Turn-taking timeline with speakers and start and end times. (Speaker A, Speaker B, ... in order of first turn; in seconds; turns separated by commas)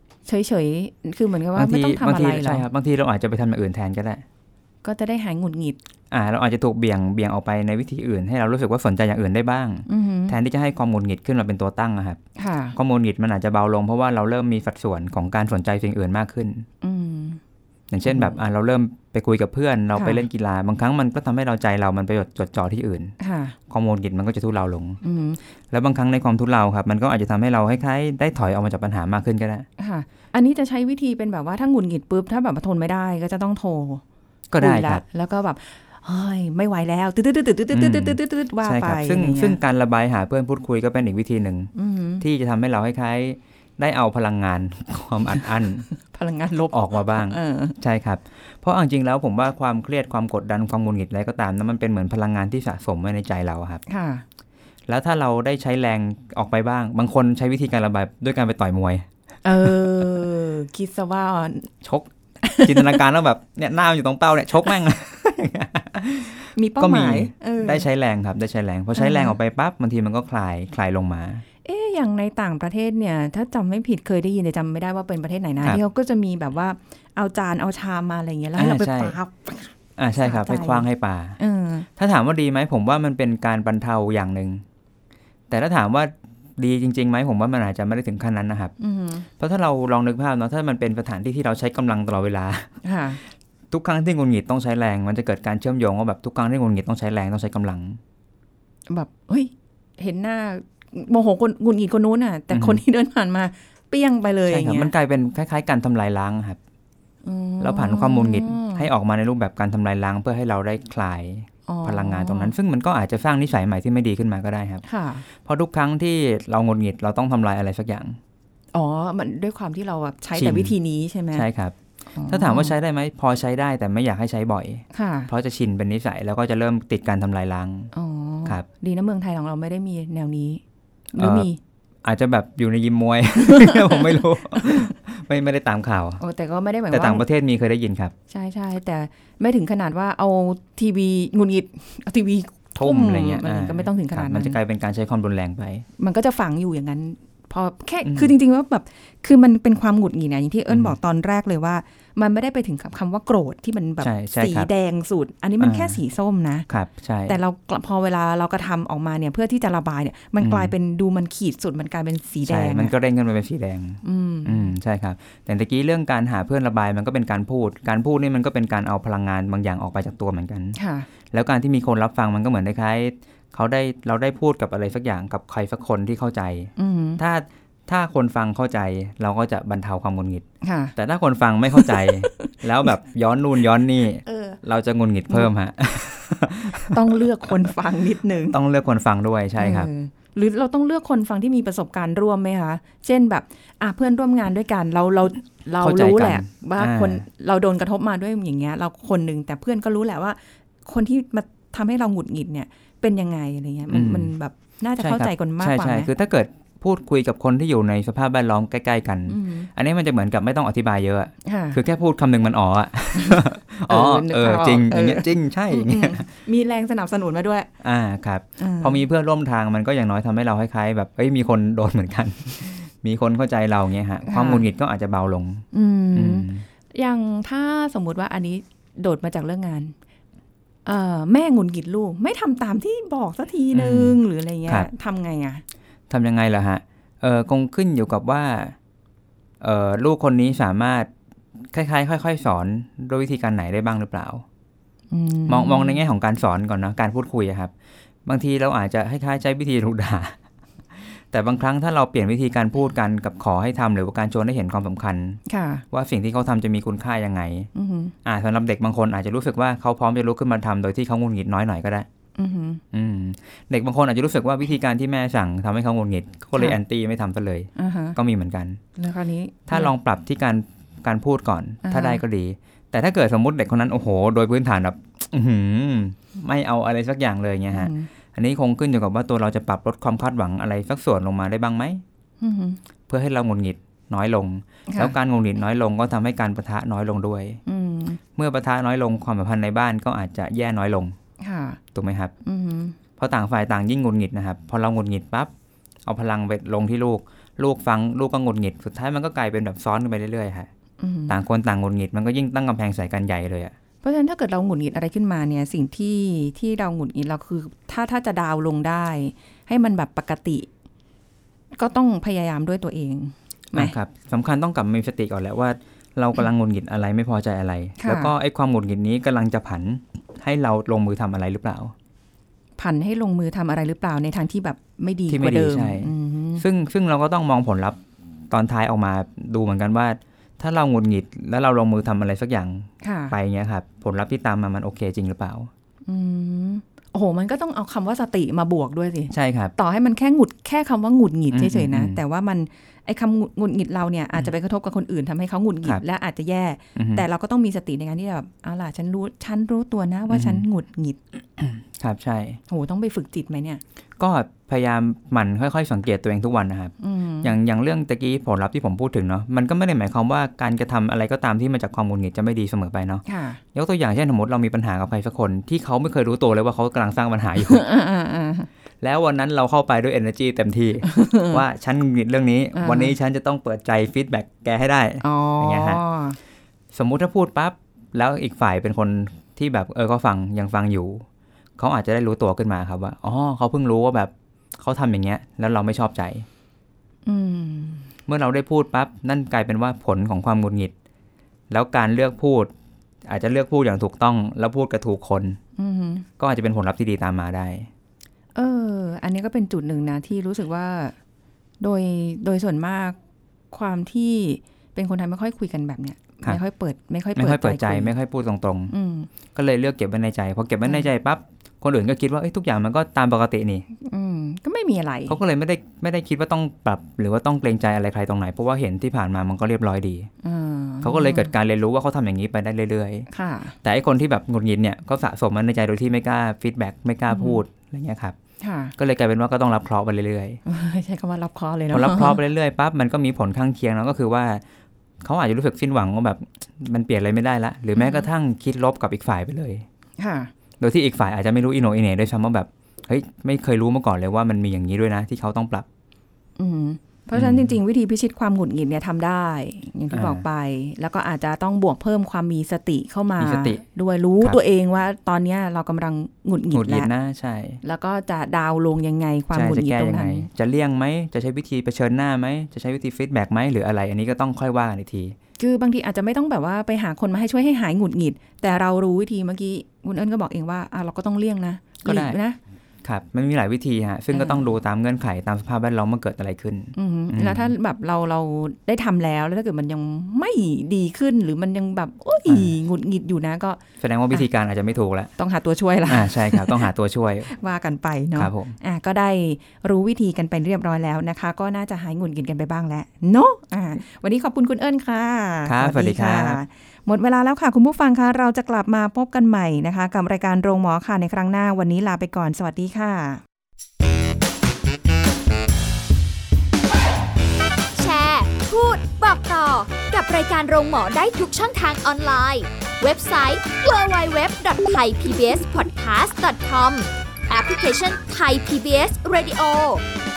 Speaker A: 0.3-2.7, Speaker B: 1.6-4.2, Speaker A: 4.8-5.8, Speaker B: 6.1-12.2, Speaker A: 9.9-10.4, Speaker A: 12.4-12.8, Speaker B: 12.8-16.7, Speaker A: 16.8-17.4, Speaker B: 17.9-23.1, Speaker A: 18.1-18.4, Speaker A: 19.9-20.2, Speaker A: 23.2-23.6, Speaker B: 23.7-25.0, Speaker A: 25.0-25.4, Speaker B: 25.7-29.7, Speaker A: 29.8-34.0, Speaker B: 34.5-35.0, Speaker A: 34.6-39.6, Speaker B: 37.7-45.9, Speaker A: 41.8-42.2, Speaker A: 46.0-47.8, Speaker B: 46.7-53.8, Speaker A: 53.9-54.2, Speaker B: 54.9-59.1, Speaker A: 59.4-61.7, Speaker B: 61.8-71.4, Speaker A: 62.4-63.0, Speaker A: 66.5-67.9, Speaker A: 69.0-69.3, Speaker A: 71.7-80.9, Speaker B: 78.6-79.2, Speaker B: 80.0-81.4, Speaker A: 81.4-81.9, Speaker B: 82.0-84.6, Speaker B: 85.5-88.7, Speaker A: 88.8-89.3, Speaker B: 89.4-92.7, Speaker A: 92.8-93.2, Speaker B: 93.7-98.0, Speaker A: 98.9-104.9, Speaker B: 102.5-102.8, Speaker B: 104.5-106.6, Speaker A: 107.2-108.9, Speaker B: 107.6-114.8, Speaker A: 111.7-112.5, Speaker A: 114.8-115.2, Speaker B: 115.4-118.2, Speaker A: 118.7-121.5, Speaker B: 120.3-120.8, Speaker B: 121.3-121.8, Speaker A: 122.1-122.7, Speaker B: 122.3-127.9, Speaker A: 124.9-125.3, Speaker A: 127.9-130.6, Speaker A: 131.1-131.6, Speaker B: 131.2-131.5, Speaker B: 132.0-136.2, Speaker A: 133.5-134.0, Speaker A: 136.2-137.2, Speaker B: 136.9-138.1, Speaker A: 138.3-144.6, Speaker B: 142.8-145.9, Speaker A: 146.0-156.7, Speaker B: 148.1-148.3, Speaker B: 150.7-151.0, Speaker B: 154.0-154.7, Speaker B: 155.6-156.0, Speaker B: 156.7-157.4, Speaker A: 157.3-162.9, Speaker B: 160.4-160.7, Speaker B: 162.5-170.8, Speaker A: 164.0-164.7, Speaker A: 170.8-171.1, Speaker B: 171.3-180.4, Speaker A: 176.8-177.2, Speaker A: 180.6-180.9, Speaker B: 181.0-187.2, Speaker A: 181.7-182.5, Speaker A: 184.2-184.6, Speaker A: 186.9-188.6, Speaker B: 188.5-189.9, Speaker A: 189.6-206.1, Speaker B: 195.8-197.2, Speaker B: 203.9-204.3, Speaker B: 205.0-216.3, Speaker A: 209.3-209.7, Speaker A: 211.4-211.8, Speaker A: 213.2-217.7, Speaker B: 217.8-226.7, Speaker A: 218.6-219.0, Speaker A: 224.3-224.7, Speaker A: 225.7-229.9, Speaker A: 230.8-235.6, Speaker B: 233.7-234.9, Speaker B: 236.1-238.8, Speaker B: 239.6-241.1, Speaker B: 241.7-244.4, Speaker A: 245.1-246.0, Speaker B: 245.5-247.7, Speaker B: 248.3-250.4, Speaker B: 251.3-255.4, Speaker A: 255.5-255.8, Speaker B: 255.9-257.7, Speaker A: 257.7-258.1, Speaker B: 258.2-262.1, Speaker A: 262.4-262.8, Speaker B: 262.9-268.8, Speaker A: 267.8-268.2, Speaker A: 269.0-269.9, Speaker B: 269.7-282.0, Speaker A: 271.9-272.2, Speaker A: 277.7-278.1, Speaker A: 282.4-282.8, Speaker B: 283.1-287.6, Speaker A: 284.9-285.1, Speaker A: 287.7-288.2, Speaker B: 288.4-291.1, Speaker A: 291.4-291.8, Speaker B: 291.9-292.3, Speaker A: 292.4-293.0, Speaker B: 293.2-295.5, Speaker B: 296.1-300.7, Speaker A: 301.0-301.4, Speaker B: 301.3-303.8, Speaker A: 304.0-310.7, Speaker A: 311.7-313.9, Speaker B: 313.8-321.9, Speaker A: 318.0-318.3, Speaker A: 322.8-326.6, Speaker B: 325.3-335.7, Speaker A: 333.0-333.4, Speaker A: 336.1-351.2, Speaker B: 339.3-339.7, Speaker B: 341.5-342.2, Speaker B: 347.0-347.2, Speaker B: 350.3-350.6, Speaker B: 351.6-352.6, Speaker A: 352.7-353.8, Speaker B: 354.2-367.8, Speaker A: 357.0-357.5, Speaker A: 363.3-363.6, Speaker A: 367.6-368.7, Speaker B: 369.0-376.0, Speaker A: 371.1-371.6, Speaker A: 372.8-373.1, Speaker A: 375.2-376.4, Speaker B: 376.9-381.2, Speaker B: 381.8-386.5, Speaker A: 387.3-388.1, Speaker B: 388.3-390.9, Speaker B: 391.7-392.7, Speaker B: 393.3-395.6, Speaker A: 395.8-396.3, Speaker B: 396.4-397.9, Speaker A: 398.6-401.1, Speaker A: 401.8-403.2, Speaker A: 403.7-408.1, Speaker B: 407.4-408.9, Speaker A: 408.9-409.3, Speaker B: 409.5-413.9, Speaker A: 414.0-415.4, Speaker B: 415.3-420.3, Speaker A: 420.4-421.5, Speaker B: 421.0-423.3, Speaker A: 423.3-423.8, Speaker B: 423.8-428.4, Speaker A: 427.3-427.6, Speaker A: 428.6-428.9, Speaker B: 429.0-430.6, Speaker A: 430.7-432.4, Speaker B: 431.9-434.6, Speaker B: 435.2-439.9, Speaker A: 438.0-438.3, Speaker A: 440.2-440.5, Speaker B: 440.8-445.9, Speaker A: 446.6-457.1, Speaker B: 447.3-447.8, Speaker B: 450.1-450.4, Speaker B: 453.4-453.8, Speaker B: 456.7-457.8, Speaker A: 457.8-460.5, Speaker B: 459.5-465.4, Speaker A: 465.6-472.6, Speaker B: 472.0-472.4, Speaker B: 473.0-477.7, Speaker A: 474.3-474.7, Speaker A: 476.9-483.8, Speaker B: 482.5-482.7, Speaker B: 484.0-485.3, Speaker A: 485.4-486.9, Speaker B: 486.1-487.5, Speaker A: 487.5-503.4, Speaker B: 488.4-488.8, Speaker B: 495.6-496.6, Speaker C: 508.0-520.0